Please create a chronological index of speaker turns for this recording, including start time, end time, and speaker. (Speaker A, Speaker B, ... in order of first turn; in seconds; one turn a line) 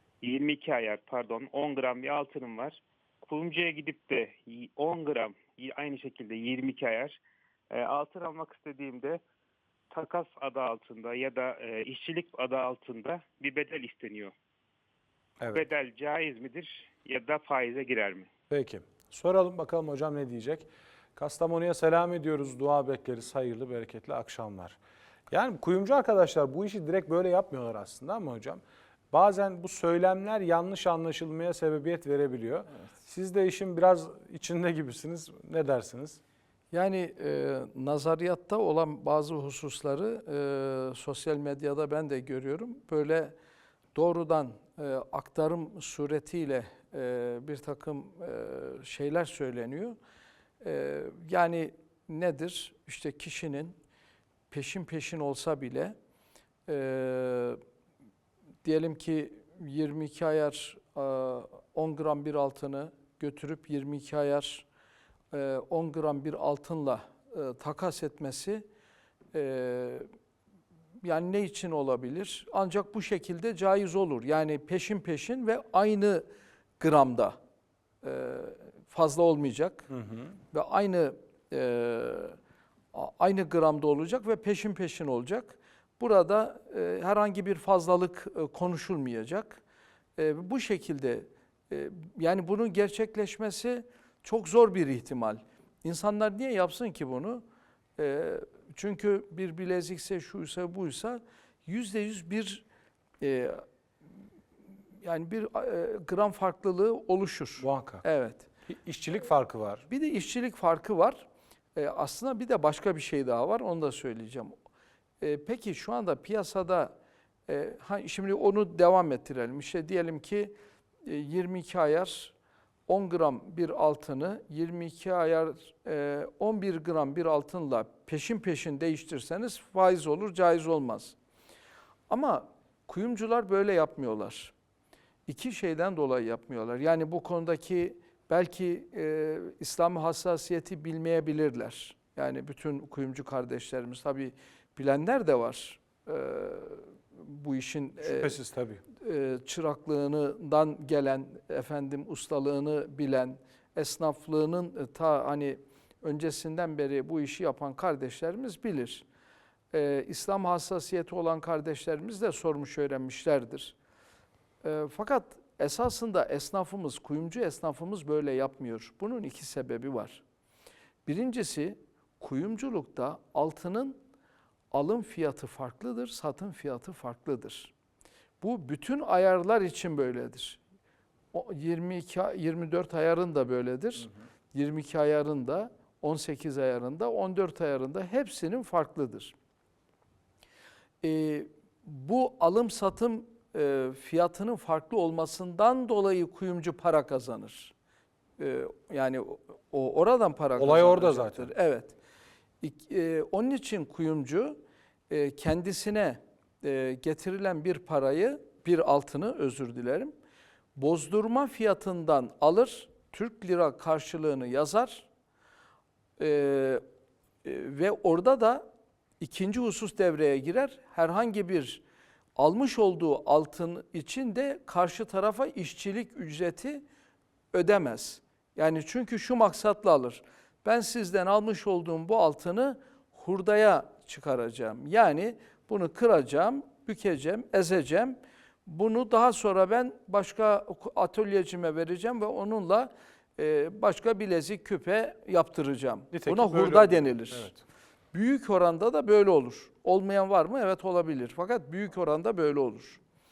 Speaker A: 0.2-7.2
Speaker A: 7.7-9.2
Speaker A: 9.9-14.3
Speaker B: 15.4-15.7
Speaker A: 15.4-18.3
Speaker B: 18.5-24.8
Speaker B: 25.3-36.2
Speaker C: 36.7-43.4
Speaker C: 43.9-50.0
Speaker C: 50.6-53.8
Speaker C: 54.5-55.9
Speaker C: 56.7-57.6
Speaker C: 58.6-64.7
Speaker C: 65.3-68.6
Speaker C: 69.3-70.1
Speaker C: 71.0-76.2
Speaker C: 76.8-77.4
Speaker C: 78.0-79.9
Speaker B: 79.9-80.3
Speaker C: 80.5-82.4
Speaker C: 82.9-89.6
Speaker C: 90.2-97.4
Speaker C: 98.0-102.6
Speaker C: 103.2-103.6
Speaker C: 105.0-108.5
Speaker B: 107.6-108.0
Speaker B: 108.7-109.8
Speaker C: 109.9-114.5
Speaker C: 115.2-116.9
Speaker C: 117.5-122.3
Speaker C: 122.9-131.2
Speaker C: 132.1-134.5
Speaker C: 135.3-148.4
Speaker B: 148.0-148.8
Speaker C: 148.9-159.1
Speaker C: 159.7-163.8
Speaker C: 164.6-170.2
Speaker C: 171.1-174.0
Speaker C: 174.7-177.7
Speaker C: 178.4-180.6
Speaker C: 181.3-189.3
Speaker C: 191.0-197.7
Speaker C: 198.4-201.9
Speaker B: 200.6-201.5
Speaker C: 202.6-210.1
Speaker C: 210.8-215.1
Speaker C: 216.2-216.8
Speaker C: 217.4-218.6
Speaker C: 219.2-221.8
Speaker C: 222.4-226.8
Speaker C: 227.5-247.5
Speaker B: 246.1-247.6
Speaker C: 248.1-253.0